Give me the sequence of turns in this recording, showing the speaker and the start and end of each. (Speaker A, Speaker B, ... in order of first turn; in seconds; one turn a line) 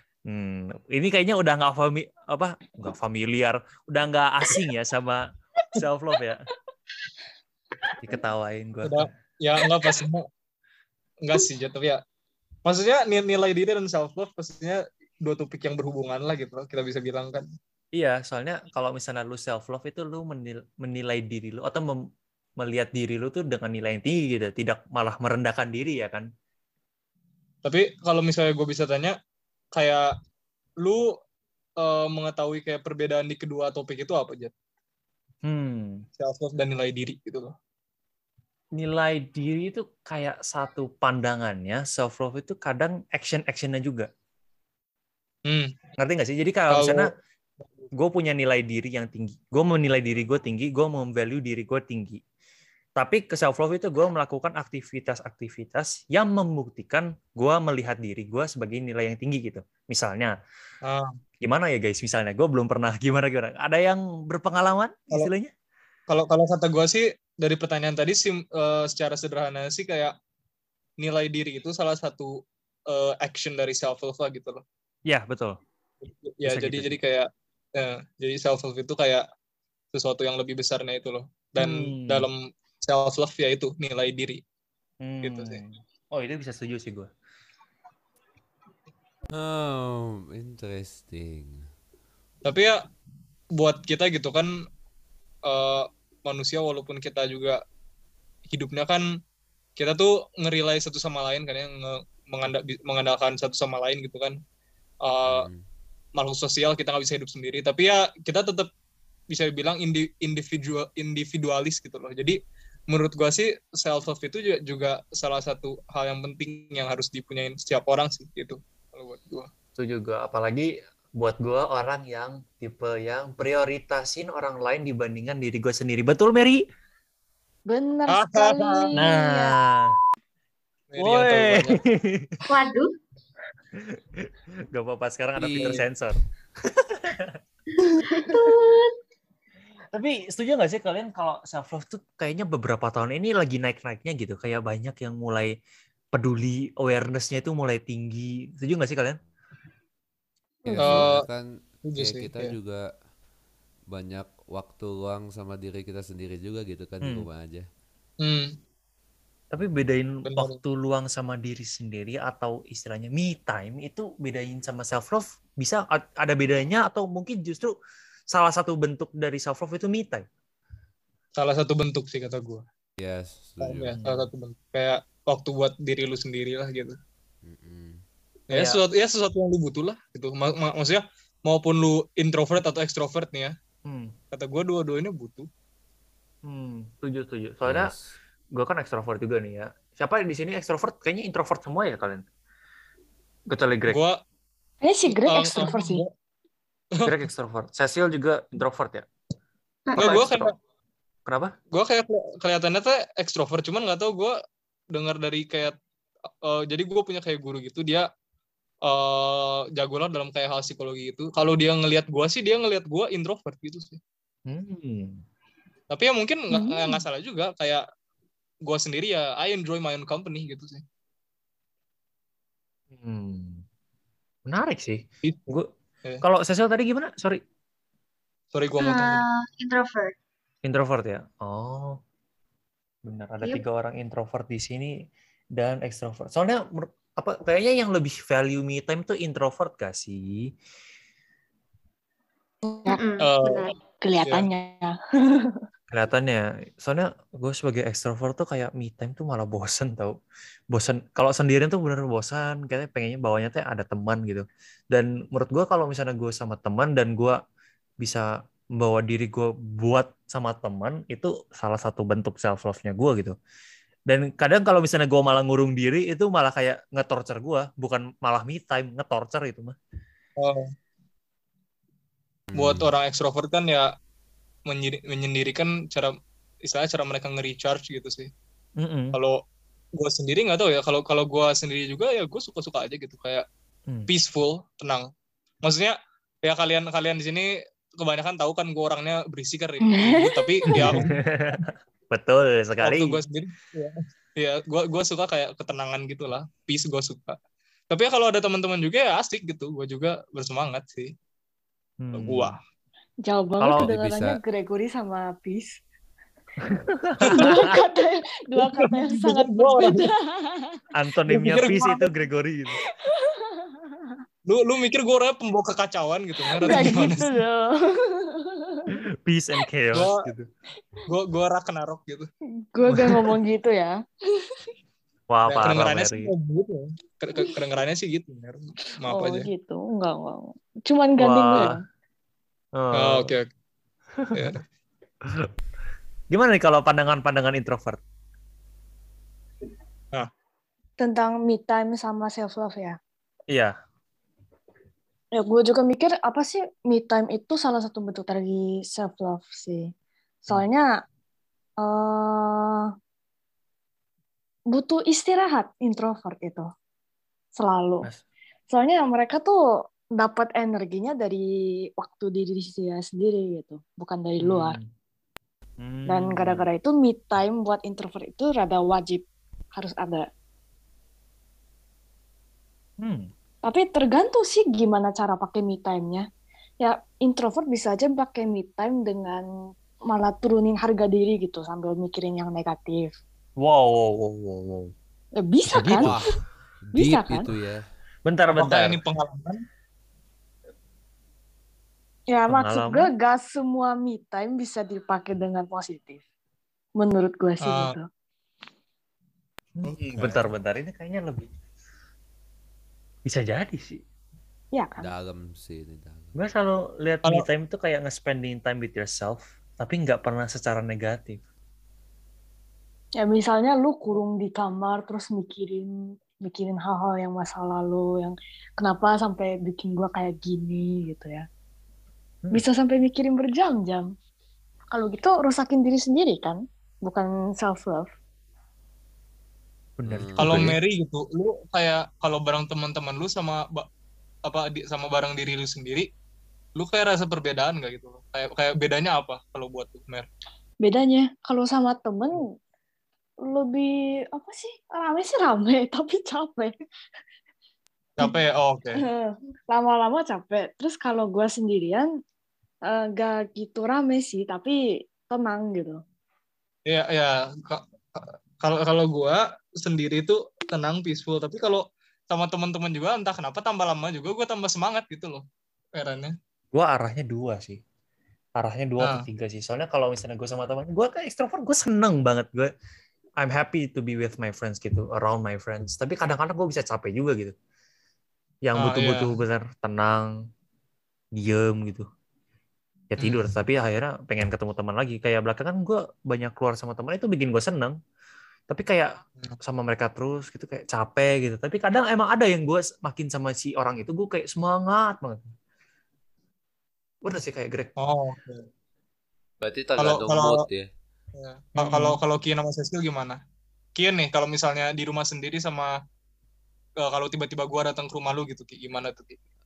Speaker A: 0.3-5.2
Speaker A: 5.8-6.4
Speaker A: 8.0-9.1
Speaker B: 8.8-10.3
Speaker B: 11.2-12.0
Speaker B: 12.7-17.4
Speaker A: 17.9-22.0
Speaker A: 22.6-26.3
Speaker B: 27.6-29.2
Speaker B: 29.7-30.1
Speaker B: 31.8-34.5
Speaker A: 35.4-36.0
Speaker B: 36.2-37.5
Speaker A: 38.8-44.1
Speaker B: 45.5-45.7
Speaker A: 46.0-47.1
Speaker B: 46.7-47.1
Speaker A: 48.0-52.2
Speaker A: 53.0-60.3
Speaker B: 60.9-61.1
Speaker A: 61.4-65.5
Speaker B: 66.1-70.1
Speaker B: 71.0-72.4
Speaker B: 72.9-74.6
Speaker A: 75.1-75.6
Speaker B: 76.0-79.2
Speaker A: 76.5-77.0
Speaker B: 79.9-84.4
Speaker A: 81.6-82.3
Speaker A: 85.0-87.1
Speaker B: 85.2-85.6
Speaker C: 89.3-91.7
Speaker B: 92.5-92.8
Speaker B: 93.6-94.5
Speaker B: 95.5-97.6
Speaker B: 98.5-99.0
Speaker B: 99.8-104.4
Speaker B: 105.0-105.5
Speaker C: 105.3-105.6
Speaker B: 106.2-108.7
Speaker B: 109.3-112.4
Speaker B: 112.9-119.5
Speaker A: 119.8-126.6
Speaker D: 127.7-129.6
Speaker B: 128.1-128.9
Speaker A: 129.0-129.9
Speaker B: 130.9-131.8
Speaker A: 131.0-132.4
Speaker E: 132.5-132.9
Speaker A: 133.8-137.4
Speaker C: 135.4-135.9
Speaker D: 137.9-138.2
Speaker E: 138.1-138.9
Speaker A: 139.9-145.5
Speaker A: 146.1-149.2
Speaker A: 150.7-151.1
Speaker C: 150.7-152.9
Speaker B: 150.8-151.3
Speaker B: 151.8-152.6
Speaker C: 153.9-157.7
Speaker A: 157.0-157.3
Speaker B: 158.2-158.6
Speaker A: 159.5-167.7
Speaker B: 160.2-160.6
Speaker A: 168.3-170.2
Speaker B: 171.4-172.7
Speaker C: 173.0-174.0
Speaker B: 173.6-177.0
Speaker A: 174.0-174.3
Speaker C: 177.4-178.0
Speaker B: 178.5-183.5
Speaker A: 178.5-178.8
Speaker A: 183.9-184.1
Speaker B: 184.3-185.5
Speaker A: 186.4-187.9
Speaker C: 187.7-188.1
Speaker A: 188.5-192.2
Speaker A: 193.5-194.0
Speaker B: 193.9-194.2
Speaker D: 194.8-196.0
Speaker B: 195.1-196.1
Speaker A: 197.1-199.1
Speaker E: 199.9-200.3
Speaker B: 200.0-200.5
Speaker A: 200.0-200.5
Speaker A: 201.3-201.5
Speaker B: 201.7-204.3
Speaker B: 204.9-205.8
Speaker B: 206.4-208.1
Speaker B: 208.9-214.0
Speaker A: 214.5-215.2
Speaker B: 215.9-217.8
Speaker D: 216.5-217.0
Speaker B: 218.6-220.8
Speaker A: 222.9-223.6
Speaker A: 224.5-225.7
Speaker A: 226.2-227.4
Speaker B: 228.5-229.2
Speaker E: 228.8-230.1
Speaker A: 230.6-232.0
Speaker A: 233.1-234.9
Speaker A: 235.6-240.5
Speaker D: 242.7-243.0
Speaker E: 242.9-243.7
Speaker B: 243.2-243.7
Speaker D: 244.0-245.6
Speaker A: 245.9-250.2
Speaker A: 250.7-257.4
Speaker A: 258.8-263.4
Speaker A: 264.1-269.8
Speaker B: 270.4-270.7
Speaker C: 272.5-272.9
Speaker B: 272.5-273.9
Speaker B: 274.7-278.3
Speaker A: 278.8-279.2
Speaker B: 279.1-279.4
Speaker B: 280.0-283.4
Speaker B: 284.1-285.1
Speaker B: 285.6-291.2
Speaker D: 289.9-291.0
Speaker A: 290.7-293.2
Speaker B: 292.8-297.4
Speaker B: 297.9-301.1
Speaker A: 302.0-302.5
Speaker B: 302.1-302.6
Speaker D: 303.2-305.8
Speaker A: 303.6-303.9
Speaker C: 303.8-304.4
Speaker A: 306.7-307.7
Speaker D: 307.2-310.8
Speaker B: 307.2-307.6
Speaker B: 308.6-310.1
Speaker A: 310.9-312.8
Speaker B: 311.3-312.1
Speaker D: 312.8-313.7
Speaker B: 314.5-317.3
Speaker D: 316.6-318.9
Speaker A: 319.2-320.5
Speaker B: 319.9-320.3
Speaker B: 321.1-322.3
Speaker D: 322.7-324.5
Speaker A: 322.9-323.3
Speaker A: 325.3-326.3
Speaker B: 325.5-329.5
Speaker D: 329.1-331.8
Speaker A: 331.2-331.8
Speaker A: 332.8-333.3
Speaker B: 332.9-333.5
Speaker A: 334.2-334.6
Speaker B: 334.3-334.6
Speaker A: 335.2-335.5
Speaker A: 336.3-338.0
Speaker D: 341.0-343.0
Speaker D: 345.4-349.9
Speaker D: 350.5-350.9
Speaker D: 351.8-352.9
Speaker D: 354.7-356.7
Speaker D: 357.6-358.1
Speaker D: 358.7-359.6
Speaker D: 360.2-361.5
Speaker D: 362.0-364.8
Speaker A: 364.4-364.9
Speaker A: 365.8-366.7
Speaker D: 366.1-370.3
Speaker A: 373.0-373.3
Speaker D: 373.6-376.3
Speaker D: 376.8-379.4
Speaker D: 380.1-383.1
Speaker A: 383.6-384.9
Speaker D: 385.4-386.1
Speaker A: 385.7-386.2
Speaker C: 386.0-386.3
Speaker C: 386.9-387.8
Speaker D: 386.9-387.5
Speaker A: 388.3-389.0
Speaker B: 388.5-389.6
Speaker D: 392.3-396.2
Speaker A: 392.5-393.1
Speaker D: 397.0-398.1
Speaker B: 397.6-398.0
Speaker A: 399.8-401.5
Speaker B: 399.9-400.5
Speaker A: 403.3-404.0
Speaker D: 404.7-405.1
Speaker C: 405.0-406.4
Speaker A: 406.4-411.4
Speaker D: 413.2-421.5
Speaker D: 422.5-424.1
Speaker D: 424.9-428.1
Speaker A: 430.0-430.8
Speaker C: 430.1-430.7
Speaker B: 430.4-433.9
Speaker B: 434.5-436.1
Speaker B: 436.8-440.3
Speaker D: 440.8-442.5
Speaker D: 443.5-446.7
Speaker B: 448.2-449.1
Speaker D: 449.0-452.1
Speaker D: 452.9-456.0
Speaker B: 456.9-465.4
Speaker B: 465.9-466.4
Speaker A: 466.7-467.8
Speaker A: 468.6-472.7
Speaker B: 469.0-469.3
Speaker A: 473.4-477.5
Speaker A: 478.6-480.3
Speaker B: 478.8-479.4
Speaker A: 481.4-482.1
Speaker A: 483.2-487.9
Speaker B: 483.2-483.5
Speaker A: 488.7-495.5
Speaker A: 497.2-497.9
Speaker B: 498.0-498.7
Speaker C: 499.6-500.9
Speaker B: 500.0-500.7
Speaker B: 501.4-503.4
Speaker A: 501.8-502.2
Speaker B: 504.0-505.9
Speaker B: 507.0-509.4